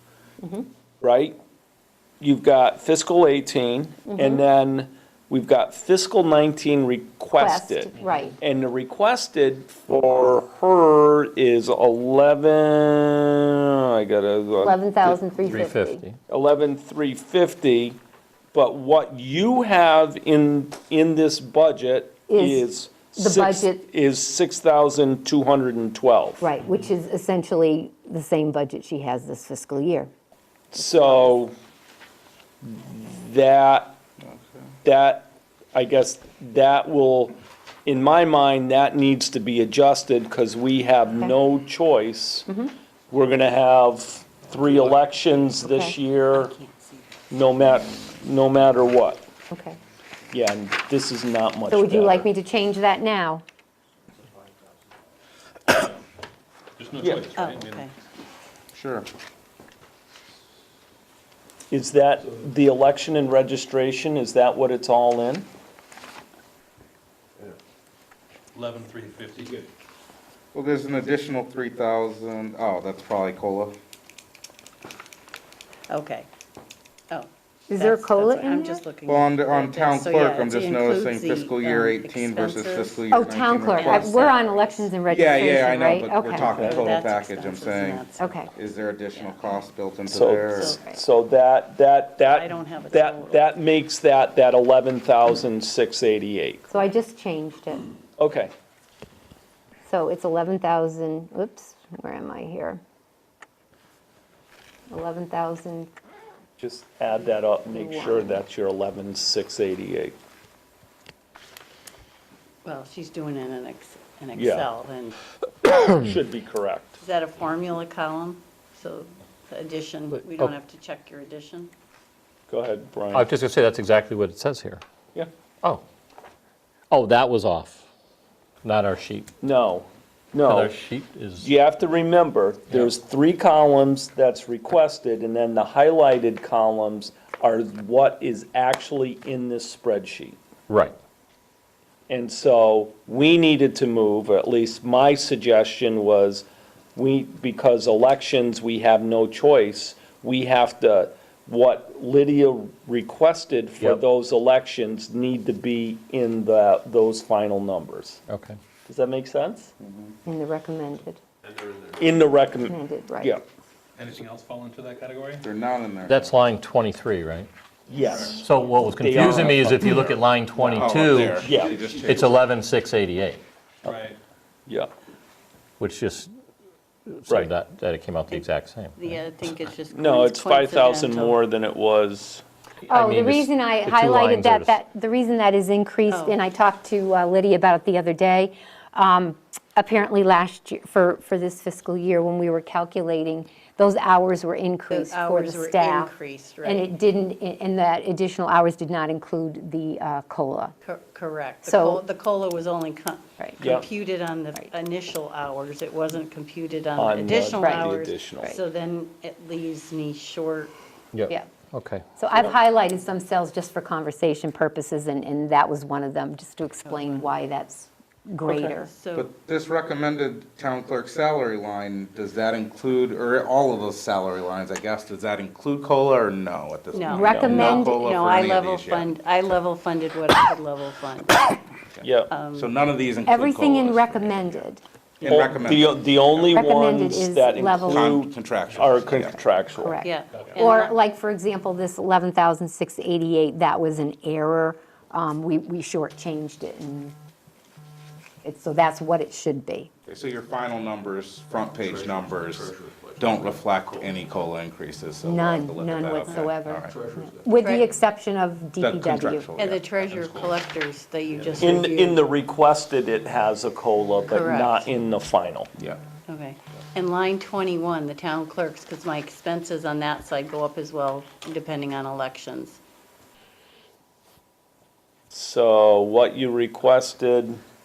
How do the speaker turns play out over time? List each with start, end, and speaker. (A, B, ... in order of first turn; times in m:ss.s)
0:00.4-0:00.7 A
0:01.0-0:01.4 B
0:02.2-0:15.2 B
0:04.1-0:04.4 A
0:07.4-0:08.4 A
0:14.6-0:16.0 A
0:15.4-0:16.2 C
0:16.3-0:18.0 B
0:18.5-0:26.5 B
0:22.3-0:23.8 A
0:26.4-0:30.1 A
0:30.7-0:31.5 B
0:32.6-0:34.0 B
0:34.8-0:37.3 B
0:37.9-0:42.6 B
0:43.1-0:46.5 B
0:45.6-0:46.0 A
0:46.3-0:47.0 D
0:47.3-0:49.2 B
0:49.5-0:49.8 A
0:50.3-0:52.3 B
0:51.7-0:53.4 A
0:56.8-0:57.9 E
0:57.0-0:57.3 B
0:57.3-0:57.9 D
0:58.7-0:59.1 F
1:01.7-1:05.5 B
1:08.6-1:09.7 E
1:10.5-1:13.7 F
1:15.9-1:16.3 D
1:17.1-1:23.0 D
1:17.7-1:18.8 A
1:19.1-1:24.4 F
1:23.1-1:26.8 A
1:23.7-1:25.5 D
1:25.1-1:30.8 F
1:26.5-1:26.8 B
1:26.6-1:28.4 D
1:28.2-1:28.5 A
1:29.1-1:29.5 D
1:30.1-1:36.7 B
1:30.6-1:31.0 A
1:32.3-1:33.5 D
1:36.7-1:37.8 A
1:38.2-1:38.5 B
1:39.9-1:42.8 A
1:44.9-1:45.9 A
1:46.6-1:50.2 B
1:47.5-1:48.4 A
1:52.6-1:55.2 D
1:54.4-1:54.7 B
1:55.6-1:57.0 B
1:57.0-2:01.7 D
2:00.2-2:00.5 C
2:02.5-2:03.3 B
2:03.1-2:04.8 C
2:06.9-2:07.8 C
2:08.6-2:09.3 C
2:09.4-2:10.8 B
2:10.4-2:11.5 C
2:11.4-2:20.4 B
2:20.7-2:21.0 C
2:22.1-2:38.2 B
2:38.3-2:38.6 C
2:38.9-2:39.7 B
2:39.8-2:40.1 F
2:40.2-2:41.2 A
2:42.0-2:43.4 B
2:42.6-2:43.4 A
2:44.0-2:45.5 E
2:45.4-2:46.4 F
2:46.1-2:47.5 C
2:47.9-2:51.8 B
2:48.0-2:48.4 E
2:48.4-2:51.5 C
2:50.7-2:52.4 F
2:51.6-2:52.1 E
2:52.0-2:53.4 C
2:53.8-2:54.2 E
2:55.8-2:56.3 C
2:57.2-2:58.9 C
2:59.0-3:01.4 D
2:59.9-3:02.4 B
3:02.9-3:04.8 C
3:02.9-3:16.1 A
3:06.1-3:06.4 D
3:14.9-3:16.9 D
3:16.6-3:20.8 A
3:20.8-3:30.7 D
3:21.6-3:22.0 A
3:23.6-3:23.8 B
3:27.0-3:28.6 B
3:27.6-3:27.9 A
3:31.1-3:32.0 C
3:32.2-3:38.9 A
3:36.9-3:37.3 D
3:38.5-3:39.3 D
3:39.2-3:49.1 F
3:46.9-3:51.6 D
3:47.1-3:48.0 A
3:47.3-3:47.5 B
3:52.0-3:52.3 B
3:52.3-3:52.7 D
3:52.6-3:54.6 F
3:53.3-3:54.8 A
3:55.2-3:56.5 F
3:55.2-4:00.0 B
3:56.5-3:58.2 A
3:57.9-3:59.4 F
3:59.5-4:07.2 A
4:00.0-4:01.0 D
4:08.4-4:09.9 A
4:10.1-4:17.0 F
4:11.8-4:14.1 E
4:15.2-4:19.5 A
4:16.9-4:17.4 E
4:17.6-4:17.9 D
4:18.8-4:19.9 F
4:19.6-4:22.2 D
4:20.0-4:20.5 E
4:21.6-4:25.7 B
4:24.3-4:24.9 D
4:26.3-4:32.8 D
4:35.3-4:37.6 B